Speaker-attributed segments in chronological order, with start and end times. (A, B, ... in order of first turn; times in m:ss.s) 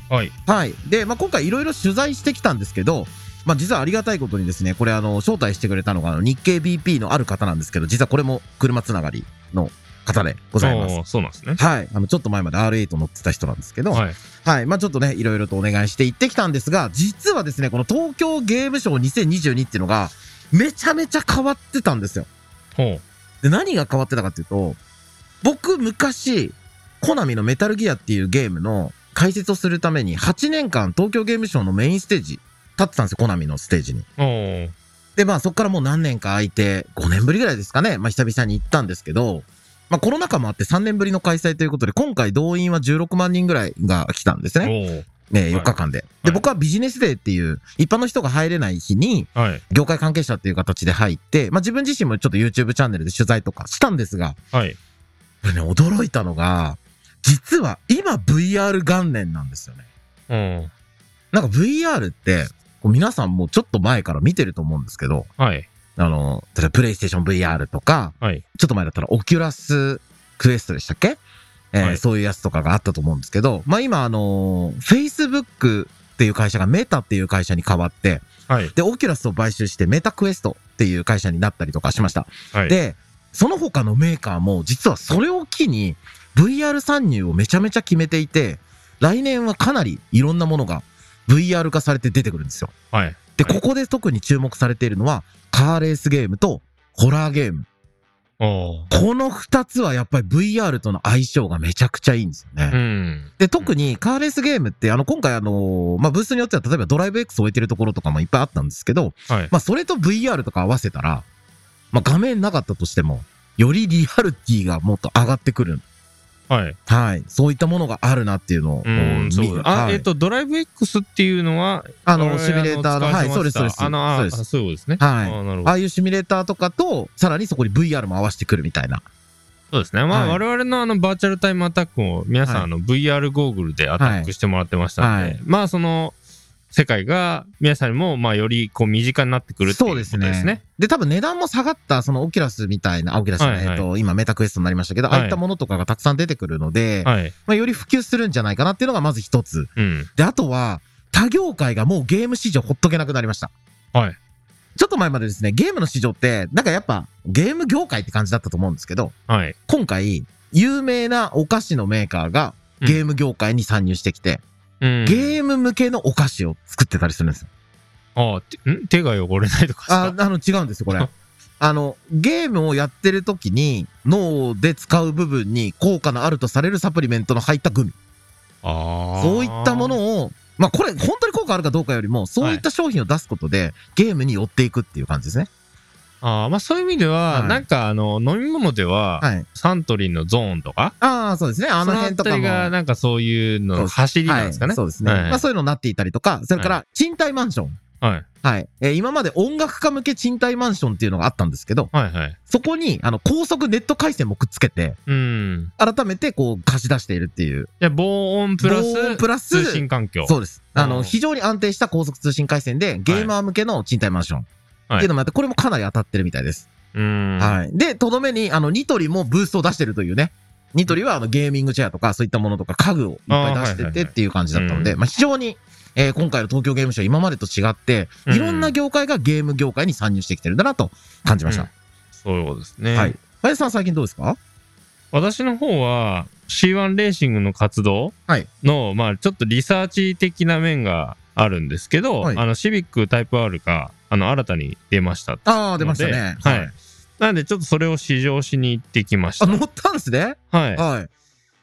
0:00.5-0:11.0 A
0:10.6-0:11.6 B
0:11.6-0:22.3 A
0:13.9-0:14.2 B
0:22.8-0:23.0 B
0:23.4-0:24.8 A
0:25.4-0:34.1 A
0:34.2-0:34.8 B
0:35.2-0:44.7 A
0:44.6-0:46.4 B
0:45.3-0:54.4 A
0:49.4-0:49.6 B
0:55.4-0:59.8 A
1:00.3-1:00.7 B
1:01.3-1:05.3 A
1:05.4-1:05.7 B
1:06.0-1:11.2 A
1:11.7-1:32.7 A
1:32.9-1:33.6 B
1:33.4-1:37.7 A
1:38.4-1:38.9 B
1:38.9-1:42.8 A
1:42.7-1:43.7 B
1:43.4-1:51.3 A
1:51.9-1:55.8 A
1:56.5-1:56.8 B
1:56.9-2:00.1 A
1:58.8-2:05.7 B
2:02.1-2:04.4 A
2:05.0-2:09.0 A
2:09.7-2:16.2 B
2:10.1-2:10.4 A
2:14.0-2:14.3 A
2:15.0-2:15.4 A
2:16.7-2:20.6 B
2:19.6-2:33.5 A
2:23.4-2:23.8 B
2:25.1-2:25.4 B
2:27.0-2:27.3 B
2:29.8-2:30.1 B
2:34.8-2:39.2 A
2:39.3-2:39.6 B
2:39.7-2:44.4 A
2:44.8-2:45.4 B
2:45.0-2:47.5 A
2:48.2-2:50.2 B
2:49.9-2:51.1 A
2:51.6-2:58.0 A
2:58.6-3:00.0 B
2:59.2-3:05.5 A
3:06.2-3:10.9 B
3:07.3-3:07.6 A
3:11.0-3:12.7 A
3:11.8-3:15.4 B
3:13.8-3:17.8 A
3:18.0-3:18.3 B
3:18.4-3:21.9 A
3:21.9-3:22.4 B
3:22.5-3:25.0 A
3:25.1-3:25.7 B
3:25.8-3:27.7 A
3:27.8-3:31.2 B
3:28.6-3:36.7 A
3:36.9-3:37.6 B
3:37.4-3:51.7 A
3:43.3-3:45.0 B
3:48.3-3:48.7 B
3:52.2-3:53.2 B
3:52.9-3:54.4 A
3:55.1-4:09.6 B
4:05.4-4:06.7 A
4:09.4-4:11.1 A
4:10.5-4:10.8 B